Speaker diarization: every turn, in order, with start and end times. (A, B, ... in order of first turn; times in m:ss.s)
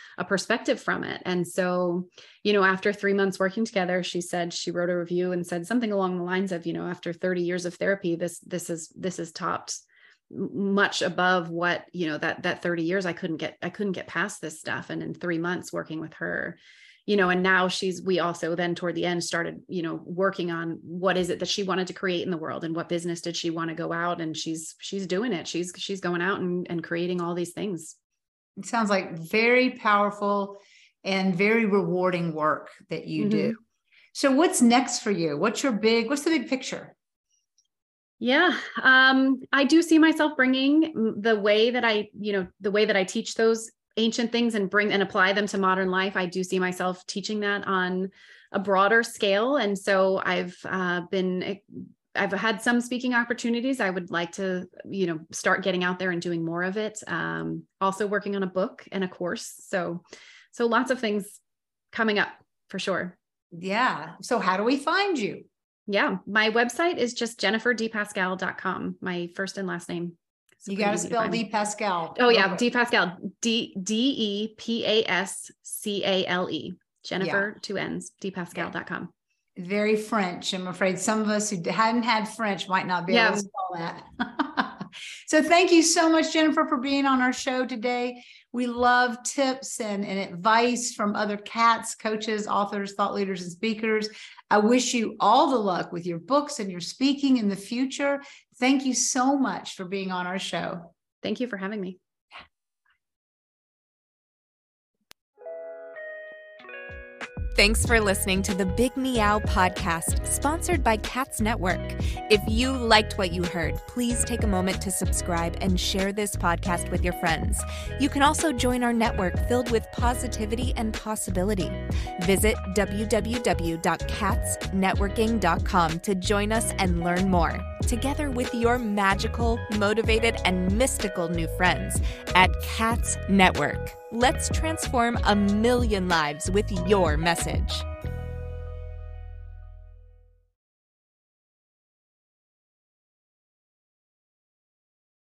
0:00.2-0:28.0 A
0:28.6-0:33.6 B
0:33.2-0:33.6 A
0:34.1-0:37.0 B
0:38.2-1:01.4 A
1:01.9-1:03.2 A
1:03.5-1:05.5 B
1:05.9-1:11.5 A
1:10.7-1:12.6 B
1:12.2-1:19.1 A
1:17.2-1:17.5 B
1:19.6-1:40.9 B
1:23.1-1:23.4 A
1:41.2-1:42.0 A
1:47.6-2:17.9 C